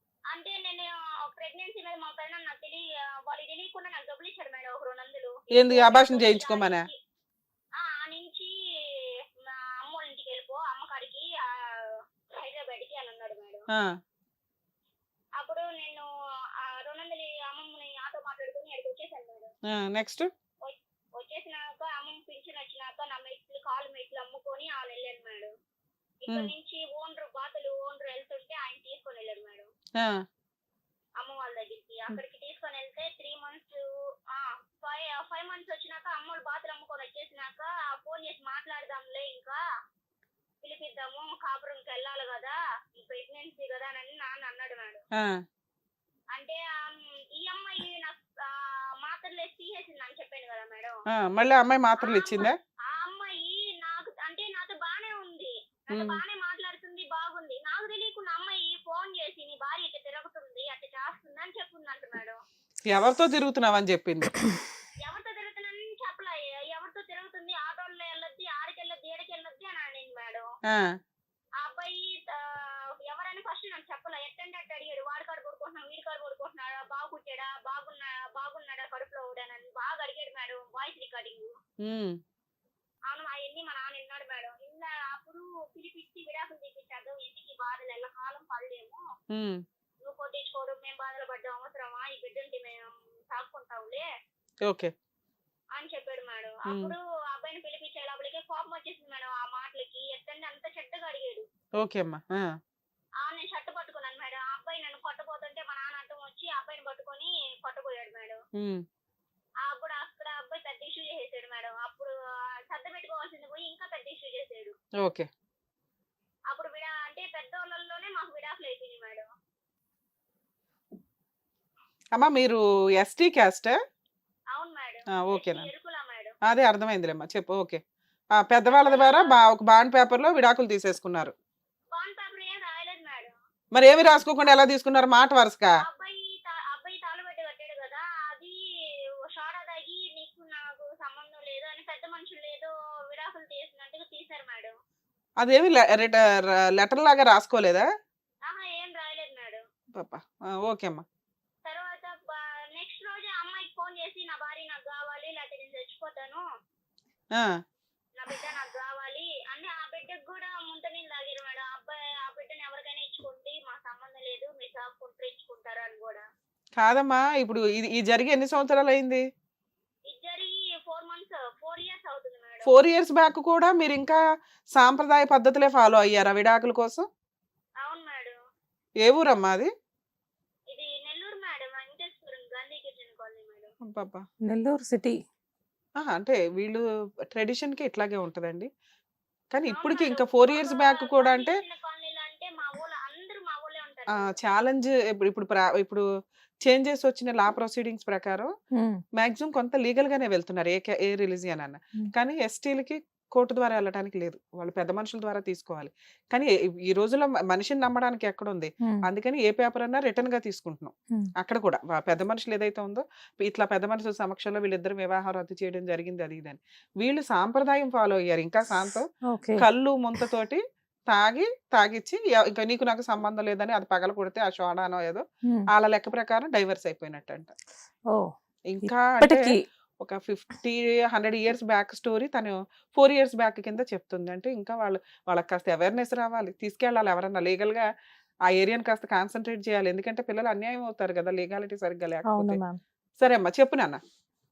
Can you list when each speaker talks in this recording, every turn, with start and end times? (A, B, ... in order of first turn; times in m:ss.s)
0:00.3-0:07.0 A
0:05.6-0:06.9 B
0:07.8-0:08.5 A
0:09.8-0:13.6 A
0:15.4-0:16.1 A
0:16.6-0:19.5 A
0:19.7-0:20.3 B
0:20.6-0:25.5 A
0:26.2-0:29.7 A
0:31.2-0:39.6 A
0:40.6-0:45.0 A
0:46.3-0:51.0 A
0:51.1-0:52.6 B
0:52.0-1:02.4 A
0:55.9-0:56.2 B
1:02.9-1:04.4 B
1:05.0-1:10.5 A
1:11.6-1:21.5 A
1:21.8-1:22.2 B
1:23.1-1:29.0 A
1:29.3-1:29.6 B
1:30.0-1:34.0 A
1:34.6-1:34.9 B
1:35.7-1:41.4 A
1:41.8-1:42.4 B
1:43.2-1:48.4 A
1:48.6-1:48.8 B
1:49.6-1:52.1 A
1:52.7-1:54.8 A
1:55.0-1:55.3 B
1:56.5-1:59.3 A
2:02.1-2:03.7 B
2:04.5-2:06.3 A
2:05.2-2:05.6 B
2:06.4-2:07.8 B
2:08.4-2:11.3 B
2:08.6-2:09.4 A
2:11.9-2:13.4 A
2:13.7-2:15.7 B
2:15.8-2:18.6 A
2:19.3-2:24.8 A
2:25.4-2:27.9 B
2:28.4-2:29.6 A
2:29.9-2:31.0 B
2:31.6-2:36.4 A
2:38.2-2:46.2 A
2:46.8-2:49.2 B
2:50.0-2:52.7 A
2:52.7-2:57.1 B
2:57.8-2:58.4 A
2:59.0-2:59.7 B
3:00.7-3:03.7 A
3:03.9-3:04.2 B
3:04.4-3:05.2 C
3:06.0-3:06.8 B
3:07.3-3:08.7 B
3:09.5-3:11.5 B
3:09.7-3:14.3 A
3:14.3-3:16.0 B
3:16.6-3:18.5 B
3:19.2-3:47.5 B
3:39.3-3:39.6 C
3:48.7-3:49.4 B
3:48.8-3:49.6 C
3:50.0-3:57.8 B
3:58.5-4:02.6 B
4:02.2-4:02.8 C
4:03.2-4:04.0 B